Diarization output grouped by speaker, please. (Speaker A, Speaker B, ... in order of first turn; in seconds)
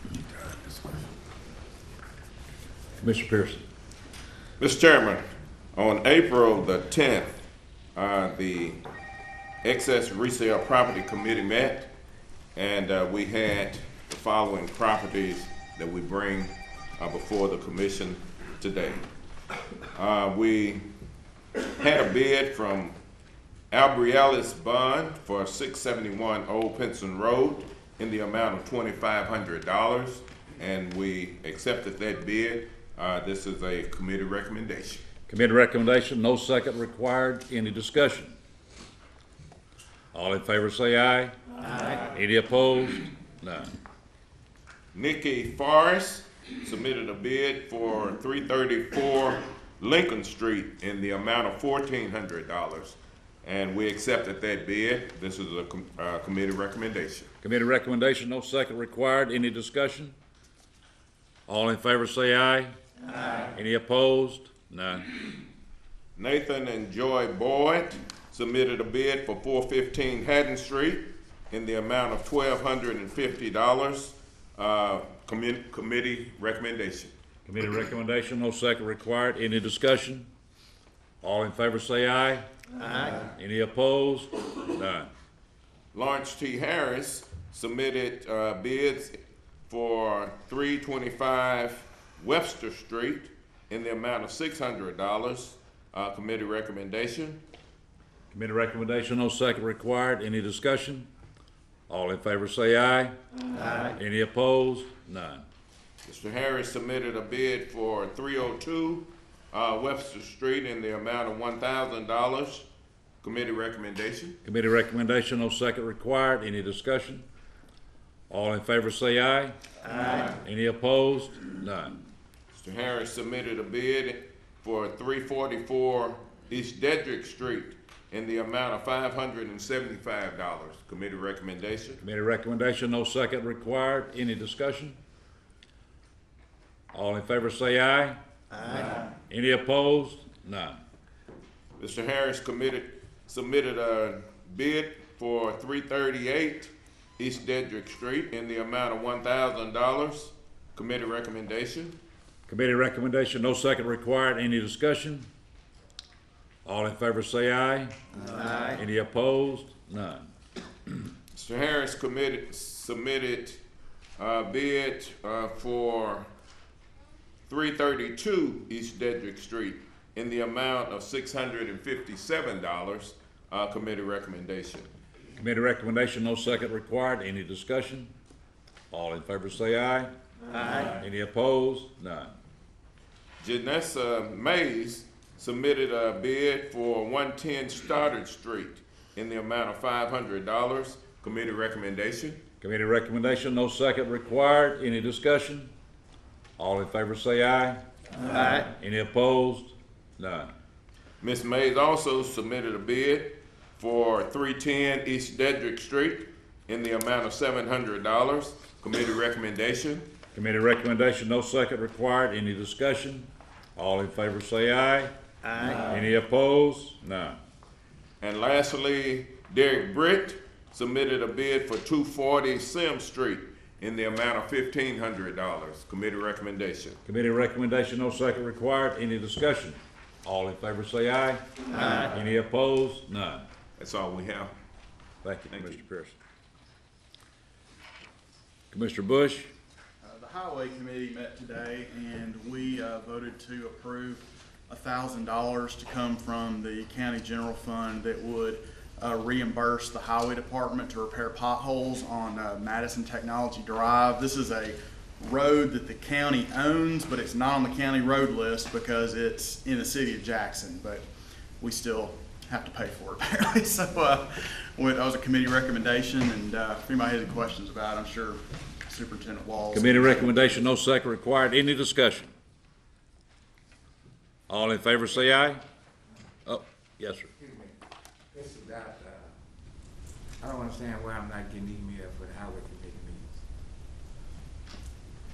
Speaker A: 0.4-0.8, 4.6-7.4, 7.9-8.8, 9.6-11.9, 12.5-19.1, 19.9-20.8, 21.8-22.9, 23.7-35.0, 44.9-57.3, 66.2-77.1, 85.9-89.2, 89.7-97.4, 106.0-112.7, 113.2-114.4, 122.5-132.0, 141.8-151.9, 161.3-163.6, 164.2-166.3, 167.5-174.9, 183.4-192.4, 201.2-210.1, 218.2-227.0, 233.8-234.5, 235.5-235.8
Speaker B: 3.0-3.6, 35.3-38.4, 40.1-41.3, 41.9-43.7, 57.4-60.1, 61.5-62.7, 63.5-65.1, 77.5-80.3, 81.2-82.4, 83.2-85.1, 98.3-101.1, 101.9-103.1, 103.8-105.4, 114.4-117.2, 118.3-119.5, 120.2-121.9, 132.0-135.0, 136.9-138.2, 139.3-140.8, 152.5-155.3, 156.6-160.3, 175.3-178.1, 178.9-180.1, 180.8-182.3, 192.6-195.7, 196.6-197.8, 198.3-200.5, 210.3-215.1, 215.7-217.4, 227.0-233.4, 235.2-236.2, 238.7-239.5, 269.7-272.3, 274.5-275.6, 276.4-277.3
Speaker C: 240.0-261.0, 261.6-270.6
Speaker D: 278.3-279.3, 280.4-283.3